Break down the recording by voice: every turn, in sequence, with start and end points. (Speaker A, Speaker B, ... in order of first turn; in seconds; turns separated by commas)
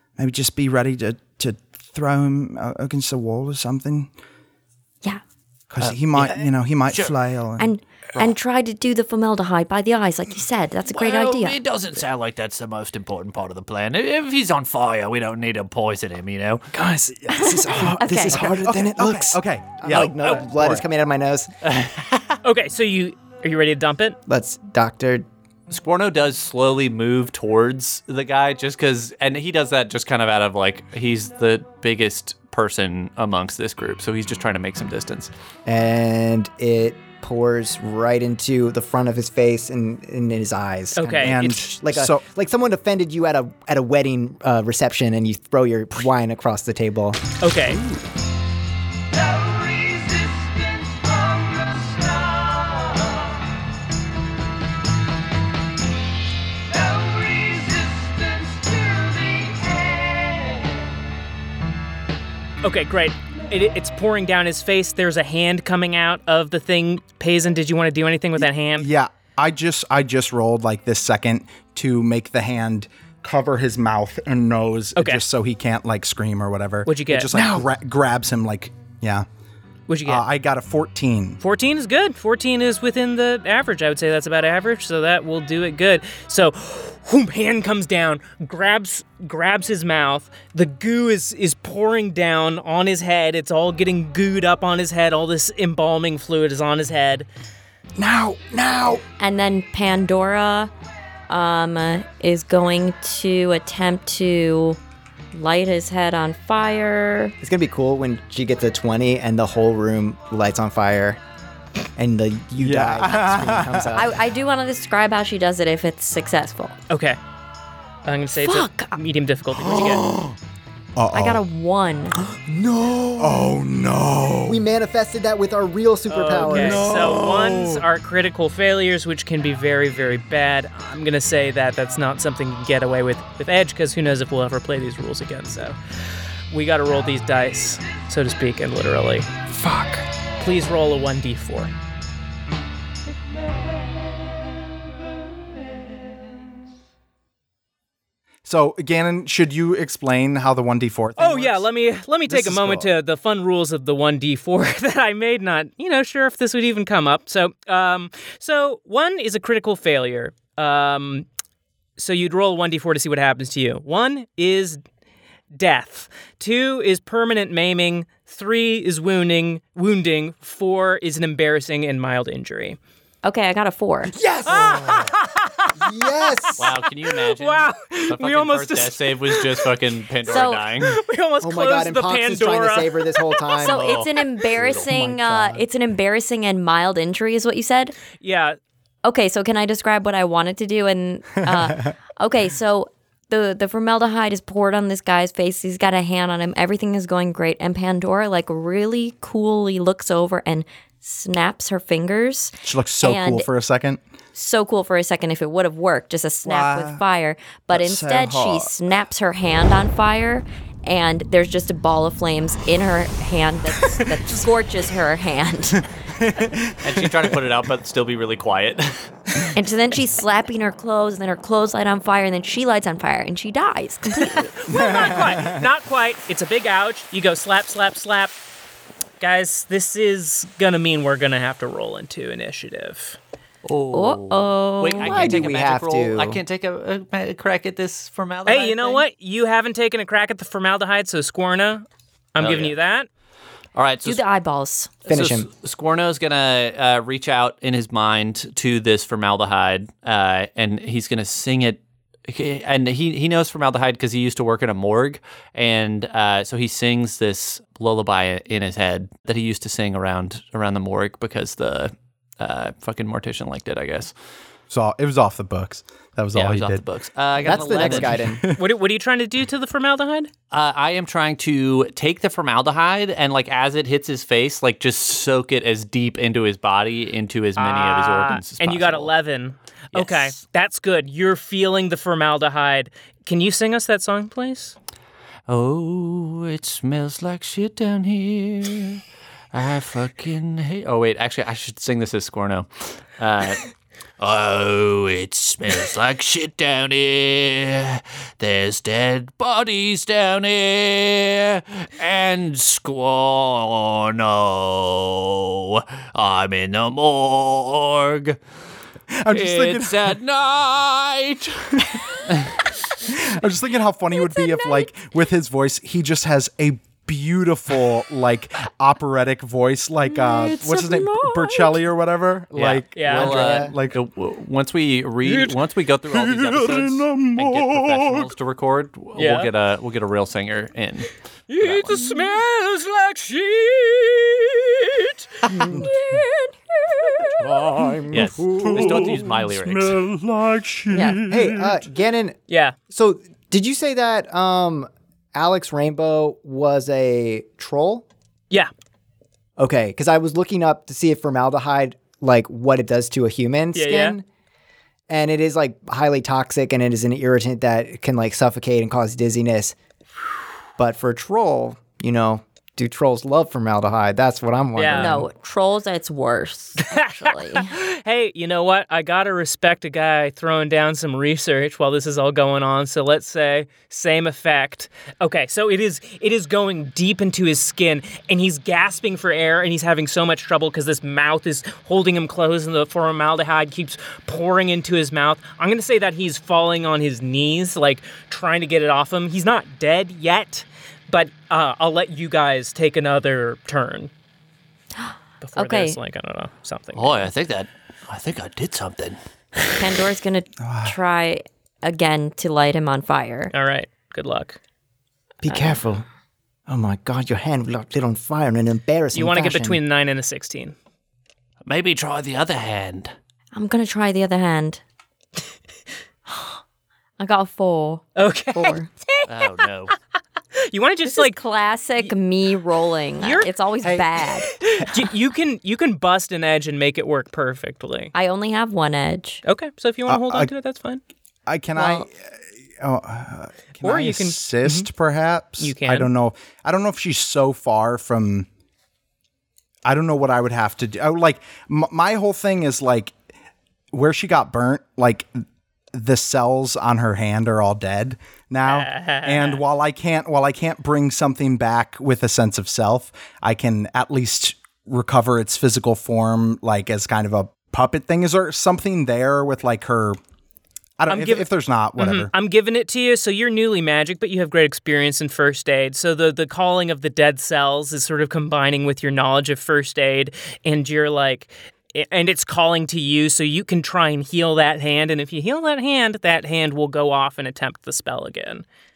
Speaker A: 0.2-4.1, Speaker A: 5.7-7.7, Speaker B: 5.8-7.1, Speaker C: 7.6-11.6, Speaker B: 10.9-16.7, Speaker D: 16.7-21.5, Speaker C: 17.3-18.5, Speaker A: 17.4-20.8, Speaker B: 21.6-22.4, Speaker E: 22.4-24.2, Speaker D: 24.3-25.2, Speaker B: 25.7-35.3, Speaker D: 35.6-47.2, Speaker E: 41.0-41.4, Speaker A: 41.2-42.2, Speaker E: 47.4-47.8, Speaker B: 49.7-50.5, Speaker E: 62.6-68.9, Speaker A: 68.4-79.2, Speaker E: 75.0-75.2, Speaker E: 76.8-77.3, Speaker D: 77.3-77.7, Speaker E: 79.9-80.2, Speaker A: 80.0-81.4, Speaker E: 81.4-97.3, Speaker D: 98.0-99.0, Speaker C: 99.2-100.7, Speaker C: 101.3-104.8, Speaker C: 105.3-107.3, Speaker D: 107.4-111.2, Speaker D: 112.0-114.2, Speaker A: 112.6-113.9, Speaker C: 113.9-116.8, Speaker E: 116.9-117.2, Speaker E: 118.0-120.0, Speaker C: 118.4-119.0, Speaker A: 119.8-120.3, Speaker A: 121.0-121.4, Speaker C: 121.1-122.2, Speaker D: 122.3-123.5, Speaker A: 123.2-124.6, Speaker D: 124.5-127.2, Speaker E: 126.1-135.8, Speaker A: 126.4-127.8, Speaker E: 136.5-139.3, Speaker D: 139.5-140.0, Speaker E: 140.4-141.7, Speaker A: 148.4-151.7, Speaker E: 151.2-161.2, Speaker A: 152.3-152.9, Speaker E: 162.0-164.8, Speaker E: 165.5-172.8, Speaker C: 173.2-174.1, Speaker D: 174.1-175.1, Speaker E: 174.5-175.9, Speaker D: 175.8-176.7, Speaker B: 176.6-181.0, Speaker E: 177.3-179.7, Speaker C: 180.2-180.7, Speaker E: 180.8-183.5, Speaker D: 181.4-184.0, Speaker C: 183.6-187.9, Speaker B: 183.6-184.9, Speaker D: 184.6-185.7, Speaker E: 188.2-188.6, Speaker C: 189.0-203.5, Speaker A: 202.6-204.0, Speaker C: 204.3-215.9, Speaker A: 206.4-207.0, Speaker A: 207.7-208.7, Speaker A: 216.1-217.2, Speaker B: 216.8-219.5, Speaker C: 219.5-224.5, Speaker E: 224.2-228.3, Speaker A: 224.7-225.7, Speaker E: 229.2-233.2, Speaker B: 233.6-239.0, Speaker C: 233.9-235.4, Speaker D: 235.0-236.4, Speaker E: 238.4-243.1, Speaker B: 242.4-242.7, Speaker B: 243.7-244.2, Speaker C: 244.0-245.0, Speaker D: 245.1-245.5, Speaker B: 245.1-264.1, Speaker A: 264.7-266.8, Speaker B: 266.3-268.3, Speaker D: 267.4-268.4, Speaker A: 267.7-268.6, Speaker E: 268.5-270.3, Speaker B: 270.5-279.1, Speaker E: 277.6-284.7, Speaker B: 279.9-280.4, Speaker B: 285.5-289.0, Speaker B: 289.5-293.6, Speaker B: 294.2-308.4, Speaker A: 309.1-310.1, Speaker B: 309.3-312.5, Speaker A: 313.0-324.0, Speaker C: 314.3-314.9, Speaker B: 322.5-332.2, Speaker E: 322.9-323.3, Speaker D: 323.2-323.7, Speaker A: 326.1-328.3, Speaker E: 329.1-329.5, Speaker E: 331.5-337.4, Speaker C: 335.5-335.9, Speaker A: 335.6-336.2, Speaker A: 337.4-341.8, Speaker D: 337.8-338.4, Speaker B: 338.1-340.0, Speaker C: 340.9-341.2, Speaker D: 341.2-342.4, Speaker E: 342.5-342.7, Speaker D: 342.9-348.0, Speaker D: 349.6-354.2, Speaker E: 353.7-354.2, Speaker D: 355.1-359.7, Speaker D: 360.8-365.3, Speaker E: 364.7-365.1, Speaker C: 364.9-367.7, Speaker E: 366.8-394.1, Speaker C: 395.0-396.0, Speaker E: 395.4-397.3, Speaker B: 396.9-399.7, Speaker C: 399.7-403.5, Speaker A: 400.6-400.9, Speaker E: 403.5-404.6, Speaker D: 405.4-406.1, Speaker C: 405.4-405.8, Speaker D: 406.7-409.8, Speaker E: 409.1-410.7, Speaker B: 411.6-413.1, Speaker C: 413.5-414.8, Speaker C: 416.3-416.6, Speaker C: 417.2-418.9, Speaker E: 418.1-419.6, Speaker B: 419.3-419.9, Speaker E: 420.5-421.4, Speaker C: 421.1-424.6, Speaker E: 423.2-423.5, Speaker A: 423.8-424.1, Speaker E: 424.6-428.1, Speaker C: 428.1-429.4, Speaker E: 429.4-431.0, Speaker A: 430.1-430.5, Speaker A: 431.4-438.5, Speaker C: 431.8-432.0, Speaker E: 433.8-434.9, Speaker E: 435.6-436.1, Speaker A: 439.8-443.1, Speaker A: 443.9-460.2, Speaker E: 448.6-449.6, Speaker A: 461.0-462.3, Speaker E: 461.1-478.6